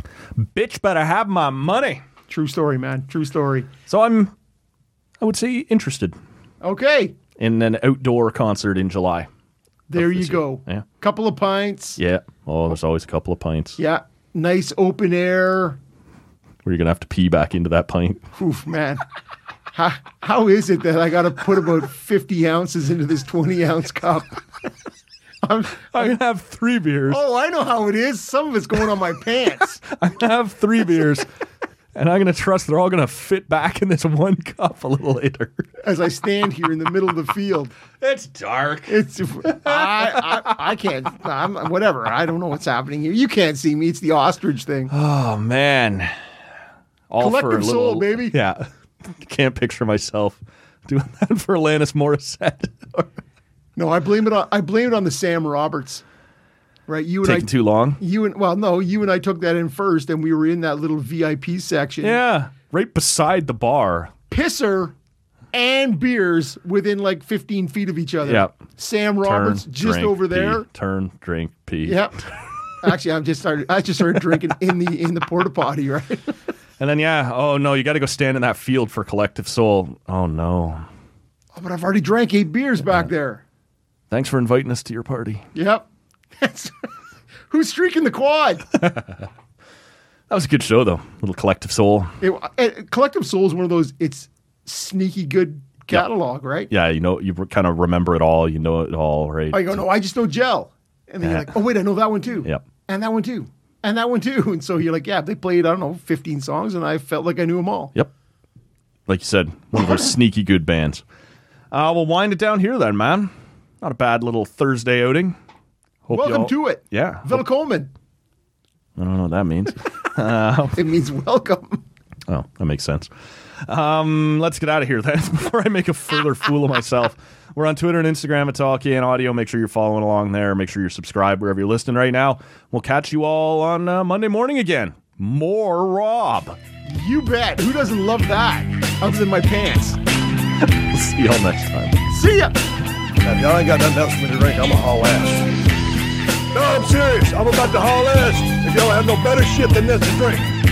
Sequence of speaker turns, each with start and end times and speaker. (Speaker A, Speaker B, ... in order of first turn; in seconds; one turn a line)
Speaker A: 0.3-2.0
Speaker B: 2.3-3.7
Speaker A: 3.9-4.3
Speaker A: 5.2-6.2
Speaker B: 6.6-7.2
Speaker A: 7.4-9.3
Speaker B: 9.9-12.0
Speaker A: 9.9-10.8
Speaker A: 12.0-13.8
Speaker B: 13.8-15.8
Speaker A: 16.6-18.2
Speaker B: 18.4-19.0
Speaker B: 19.7-24.4
Speaker B: 25.4-26.1
Speaker A: 25.9-27.2
Speaker B: 27.1-29.8
Speaker A: 29.8-31.3
Speaker A: 31.9-35.7
Speaker B: 35.8-37.8
Speaker A: 38.0-40.6
Speaker B: 38.9-44.9
Speaker A: 44.9-46.2
Speaker A: 47.1-53.1
Speaker B: 47.2-48.4
Speaker B: 53.8-56.0
Speaker B: 56.9-62.2
Speaker A: 57.2-58.0
Speaker A: 62.0-64.1
Speaker B: 64.3-65.0
Speaker B: 65.5-70.7
Speaker A: 68.2-68.5
Speaker A: 69.2-72.3
Speaker B: 71.8-72.2
Speaker B: 72.8-76.3
Speaker A: 76.8-80.9
Speaker B: 81.5-83.4
Speaker A: 84.1-85.5
Speaker B: 85.5-85.9
Speaker B: 86.4-86.9
Speaker B: 87.5-88.7
Speaker A: 88.8-89.3
Speaker A: 90.3-92.1
Speaker B: 92.2-96.7
Speaker A: 96.7-99.8
Speaker B: 99.5-108.0
Speaker A: 101.2-101.6
Speaker A: 109.1-111.0
Speaker A: 111.7-115.4
Speaker A: 116.1-117.4
Speaker B: 116.1-117.9
Speaker A: 119.0-120.8
Speaker B: 120.7-121.8
Speaker A: 122.3-123.1
Speaker A: 123.6-136.6
Speaker B: 136.8-140.0
Speaker A: 140.6-142.0
Speaker B: 142.1-142.6
Speaker C: 143.2-145.6
Speaker C: 146.5-150.5